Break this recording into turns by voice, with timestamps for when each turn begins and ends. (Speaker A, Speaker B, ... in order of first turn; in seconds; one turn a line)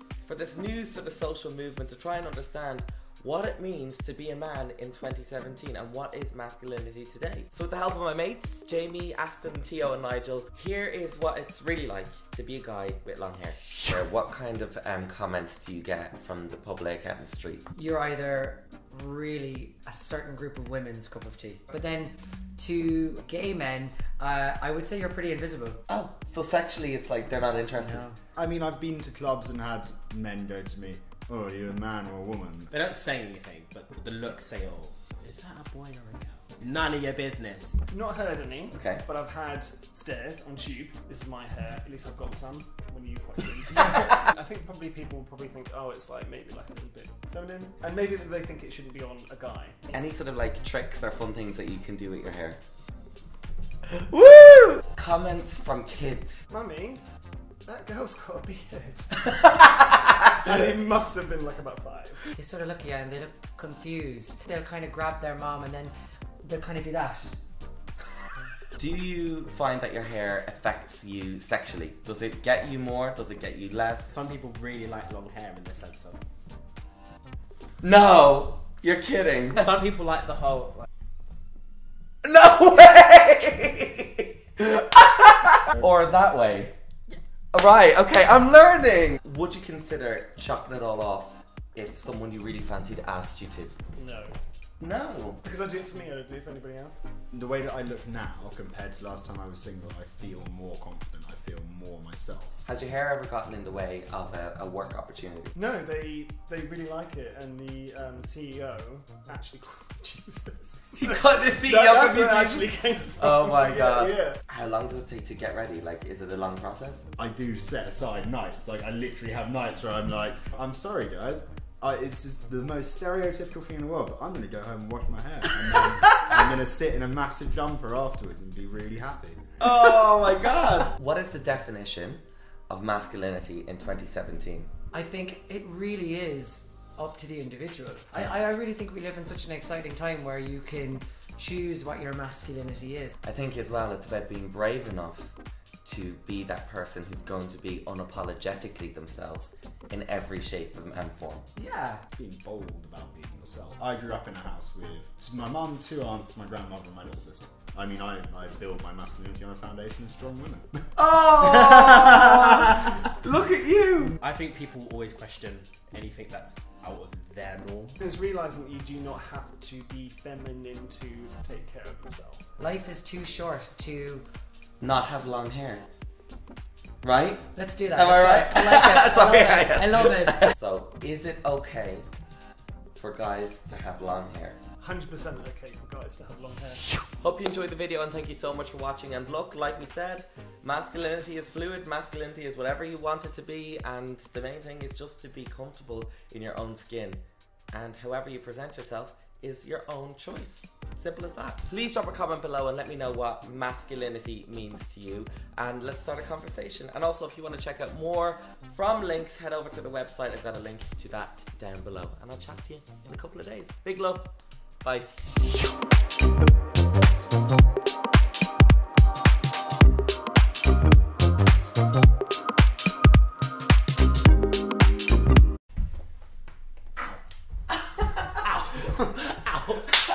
Speaker A: 0.2-17.6
Speaker B: 17.7-25.8
Speaker A: 25.9-28.1
Speaker B: 27.8-28.1
Speaker C: 28.3-32.7
Speaker D: 32.7-37.7
Speaker E: 37.9-49.8
Speaker A: 38.7-39.0
Speaker A: 49.9-52.6
Speaker A: 53.9-56.4
Speaker E: 56.5-57.0
Speaker E: 57.6-59.3
Speaker E: 60.4-62.2
Speaker B: 62.4-67.3
Speaker A: 68.8-74.1
Speaker D: 74.1-76.2
Speaker A: 77.8-79.7
Speaker D: 79.5-80.9
Speaker A: 82.2-86.7
Speaker A: 87.5-93.7
Speaker E: 94.0-94.4
Speaker A: 94.8-95.4
Speaker E: 95.4-97.0
Speaker C: 97.3-102.6
Speaker A: 102.6-105.5
Speaker E: 105.5-114.4
Speaker A: 110.9-117.0
Speaker C: 117.2-129.6
Speaker A: 129.6-134.7
Speaker B: 134.9-143.1
Speaker A: 143.2-145.3
Speaker A: 145.8-151.4
Speaker B: 151.6-152.0
Speaker C: 152.1-160.9
Speaker A: 160.9-164.2
Speaker D: 164.2-168.0
Speaker E: 168.0-172.4
Speaker B: 172.6-174.2
Speaker A: 174.8-175.8
Speaker A: 177.0-182.1
Speaker B: 177.5-180.5
Speaker A: 182.9-184.6
Speaker E: 184.8-186.8
Speaker A: 187.2-197.2
Speaker A: 197.7-215.2
Speaker D: 228.4-229.8